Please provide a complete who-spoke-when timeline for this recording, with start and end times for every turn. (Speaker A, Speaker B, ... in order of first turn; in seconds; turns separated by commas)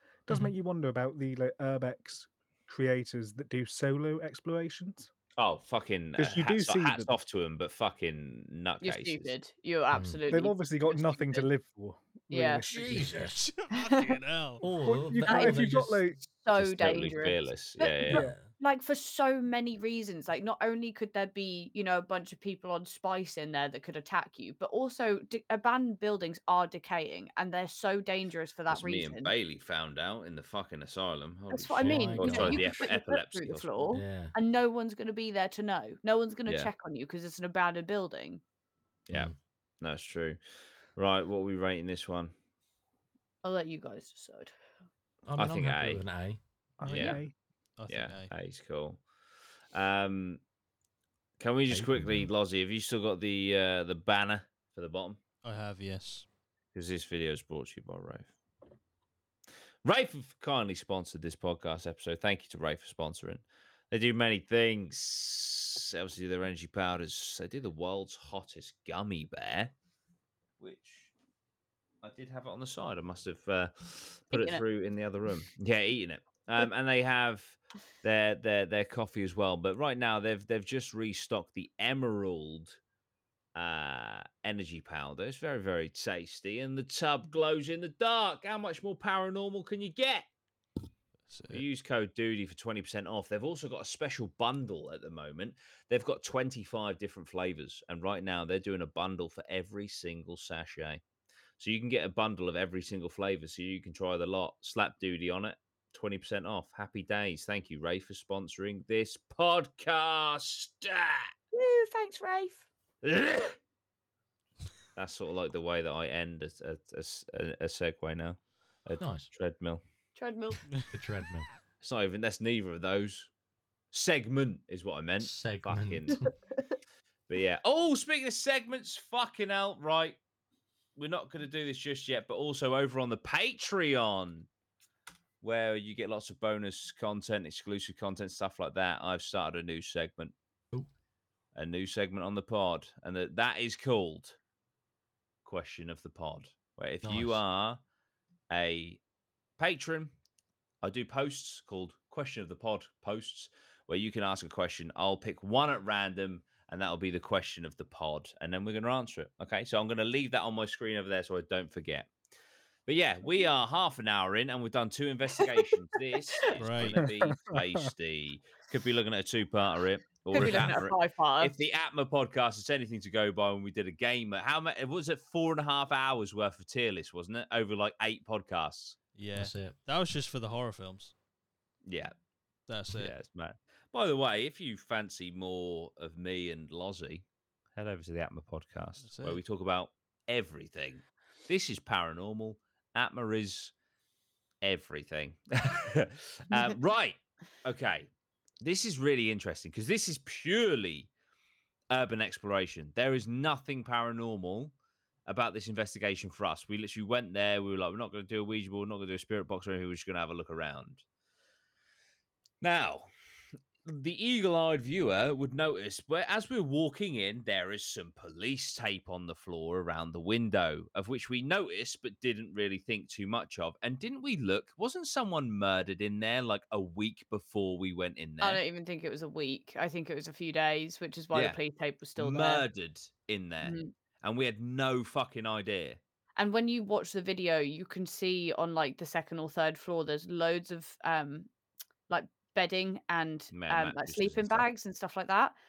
Speaker A: 0.3-5.1, Speaker B: 5.4-9.3, Speaker A: 6.2-7.1, Speaker C: 8.8-11.5, Speaker D: 9.9-10.2, Speaker A: 10.3-13.3, Speaker C: 12.3-12.7, Speaker D: 12.7-13.4, Speaker E: 13.3-14.6, Speaker C: 13.8-14.2, Speaker D: 14.6-16.1, Speaker A: 14.8-16.2, Speaker C: 15.3-15.7, Speaker C: 16.3-29.3, Speaker B: 16.6-18.3, Speaker D: 18.1-18.5, Speaker B: 28.7-33.9, Speaker C: 31.5-38.4, Speaker D: 31.8-32.9, Speaker D: 33.9-34.3, Speaker B: 36.5-36.7, Speaker B: 39.1-40.4, Speaker D: 39.1-39.4, Speaker B: 41.0-42.3, Speaker C: 43.4-44.5, Speaker D: 45.3-46.4, Speaker B: 45.4-46.0, Speaker A: 46.8-47.3, Speaker B: 46.9-47.2, Speaker E: 47.8-48.3, Speaker B: 47.9-49.0, Speaker B: 49.7-50.4, Speaker B: 51.4-55.2, Speaker D: 51.7-52.3, Speaker E: 55.4-56.3, Speaker B: 56.7-58.3, Speaker B: 59.8-69.7, Speaker B: 70.6-71.1, Speaker B: 72.0-82.8, Speaker C: 74.3-74.6, Speaker B: 83.5-90.3, Speaker E: 91.3-91.6, Speaker B: 91.5-101.0, Speaker B: 101.6-111.3, Speaker C: 111.5-112.7, Speaker B: 113.0-113.6, Speaker B: 115.0-119.8, Speaker D: 119.0-119.3, Speaker C: 120.2-120.6, Speaker D: 120.8-121.5, Speaker B: 121.8-123.3, Speaker B: 123.9-126.2, Speaker D: 125.2-126.3, Speaker B: 127.3-130.2, Speaker B: 131.0-134.5, Speaker B: 135.4-140.3, Speaker B: 141.6-144.4, Speaker B: 145.4-147.8, Speaker D: 147.0-147.4, Speaker B: 148.5-149.0, Speaker B: 149.6-150.1, Speaker B: 150.8-162.1, Speaker B: 162.9-179.0, Speaker E: 166.6-167.0, Speaker A: 166.9-167.9, Speaker C: 170.3-171.7, Speaker E: 179.2-181.1, Speaker D: 179.3-179.8, Speaker B: 181.9-182.1, Speaker E: 182.7-183.2, Speaker B: 182.9-193.7, Speaker E: 189.0-189.4, Speaker B: 194.6-198.1, Speaker B: 198.6-201.1, Speaker B: 201.9-204.7, Speaker B: 205.3-211.0, Speaker B: 212.6-213.1, Speaker B: 213.8-228.6, Speaker C: 228.4-232.7, Speaker B: 231.3-231.6, Speaker B: 232.2-236.0, Speaker C: 233.6-233.9, Speaker C: 236.4-241.5, Speaker C: 242.1-245.6, Speaker B: 243.5-244.7